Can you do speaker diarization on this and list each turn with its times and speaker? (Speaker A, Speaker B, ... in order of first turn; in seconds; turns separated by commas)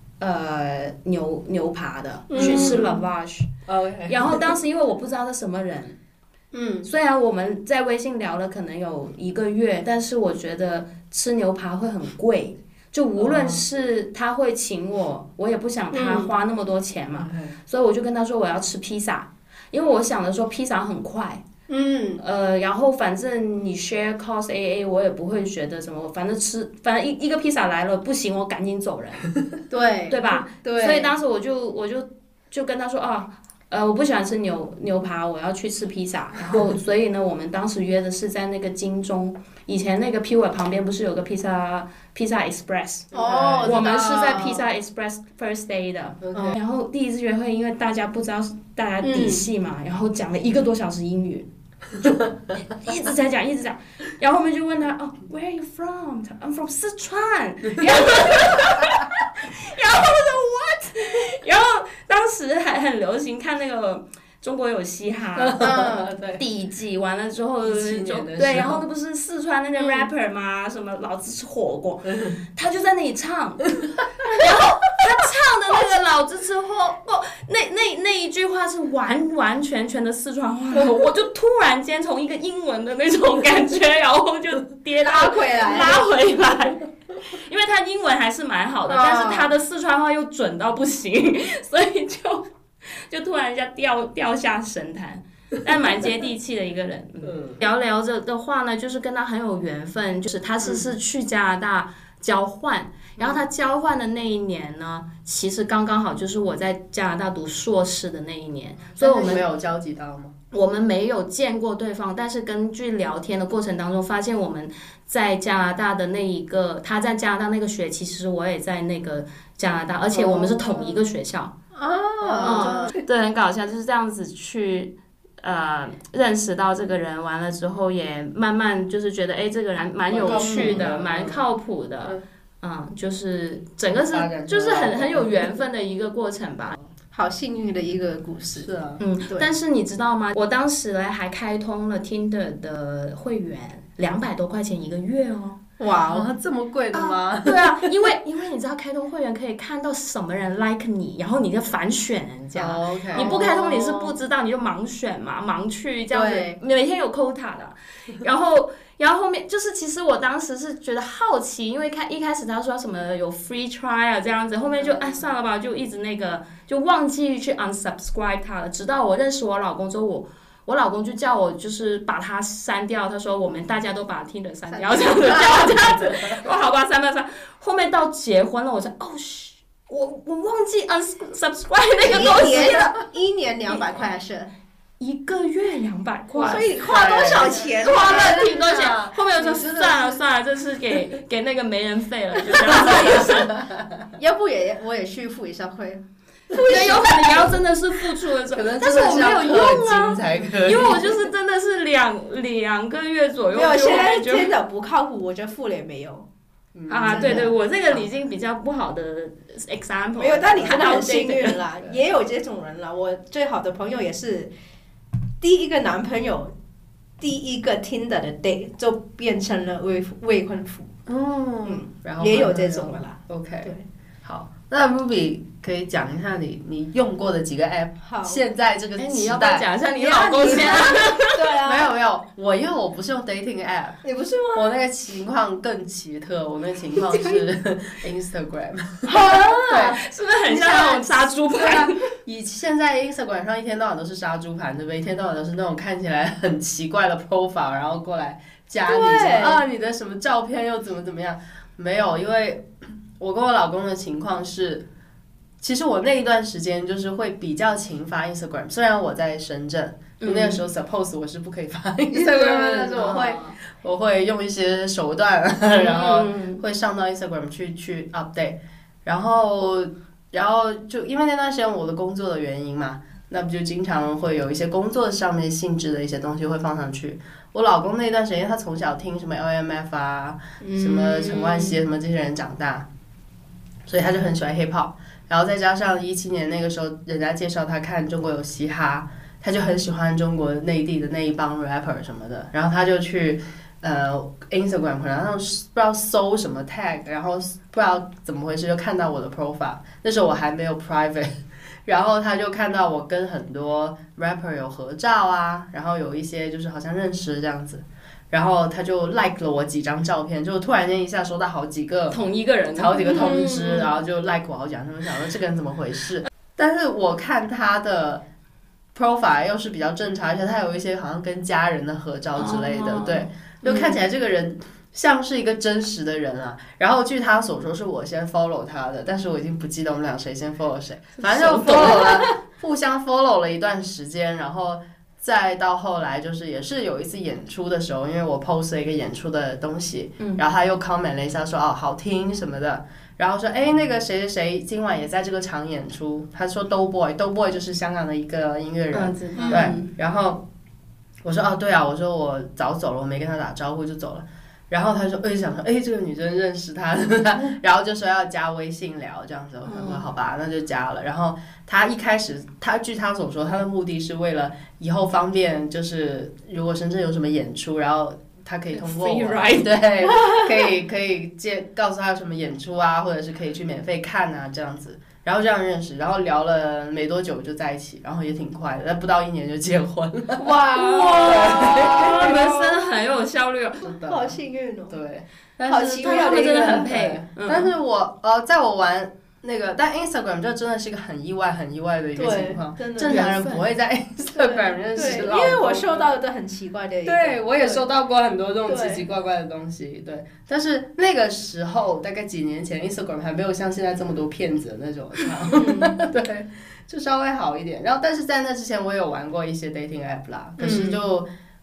Speaker A: 0.2-3.5, Speaker B: 2.3-2.9, Speaker C: 2.4-2.9, Speaker C: 3.7-4.5, Speaker A: 4.1-5.9, Speaker C: 6.5-6.9, Speaker A: 6.8-21.4, Speaker C: 13.2-13.6, Speaker B: 15.9-16.3, Speaker C: 17.1-17.6, Speaker B: 21.7-22.2, Speaker A: 22.2-29.3, Speaker B: 29.7-31.1, Speaker A: 30.1-43.1, Speaker C: 43.1-43.9, Speaker B: 43.1-44.6, Speaker A: 43.6-51.5, Speaker C: 46.2-46.5, Speaker B: 49.0-49.5, Speaker A: 52.0-109.4, Speaker C: 65.3-66.4, Speaker C: 67.6-68.8, Speaker B: 85.0-86.0, Speaker B: 88.9-89.5, Speaker C: 97.2-97.6, Speaker C: 109.0-110.3, Speaker A: 110.5-121.5, Speaker C: 120.1-121.0, Speaker B: 121.7-122.9, Speaker C: 122.2-122.9, Speaker A: 122.4-136.8, Speaker C: 130.1-131.4, Speaker B: 130.2-130.8, Speaker C: 134.1-135.5, Speaker B: 137.1-138.7, Speaker C: 138.6-139.0, Speaker A: 139.0-145.6, Speaker B: 145.8-146.3, Speaker C: 146.1-148.1, Speaker A: 146.9-182.9, Speaker C: 152.5-153.8, Speaker B: 153.1-154.1, Speaker B: 156.1-156.6, Speaker C: 164.8-165.2, Speaker C: 174.7-176.4, Speaker B: 182.0-184.5, Speaker A: 185.0-186.7, Speaker B: 186.3-188.4, Speaker C: 186.8-190.2, Speaker A: 187.6-193.5, Speaker C: 192.5-194.0, Speaker B: 192.7-193.3, Speaker B: 194.2-197.5, Speaker A: 196.5-204.5, Speaker C: 198.5-201.3, Speaker B: 203.5-206.3, Speaker C: 206.7-208.0, Speaker A: 206.9-211.6, Speaker B: 207.1-207.5, Speaker B: 210.2-214.5, Speaker B: 215.4-216.5, Speaker B: 217.2-220.9, Speaker C: 221.1-223.7, Speaker B: 221.6-223.8, Speaker C: 224.2-229.7, Speaker B: 228.0-228.4, Speaker A: 229.0-231.3, Speaker B: 229.9-231.9, Speaker C: 230.4-230.9, Speaker C: 231.5-234.0, Speaker B: 234.0-234.7, Speaker C: 234.5-239.1, Speaker B: 236.9-237.4, Speaker B: 239.0-239.9, Speaker A: 239.5-242.0, Speaker C: 239.7-254.8, Speaker B: 248.8-249.6, Speaker C: 255.6-282.9, Speaker A: 260.2-260.6, Speaker A: 262.1-263.6, Speaker A: 265.7-266.6, Speaker B: 280.6-281.8, Speaker C: 283.9-301.3, Speaker C: 301.9-312.2, Speaker A: 312.1-313.6, Speaker C: 312.7-318.2, Speaker B: 313.0-313.9, Speaker C: 318.9-350.4, Speaker A: 322.4-324.0, Speaker A: 331.2-332.3, Speaker A: 348.9-349.9, Speaker B: 349.4-349.7, Speaker C: 351.2-380.5, Speaker A: 359.6-360.0, Speaker A: 368.7-369.8, Speaker B: 380.4-382.8, Speaker A: 380.6-383.9, Speaker C: 381.2-382.6, Speaker C: 383.8-384.4, Speaker B: 384.0-384.9, Speaker C: 384.9-396.1, Speaker B: 385.6-386.9, Speaker A: 385.9-387.7, Speaker B: 392.1-393.3, Speaker A: 393.0-393.6, Speaker B: 394.4-397.8, Speaker C: 397.0-411.3, Speaker B: 398.6-399.0, Speaker B: 405.5-406.0, Speaker B: 410.6-411.0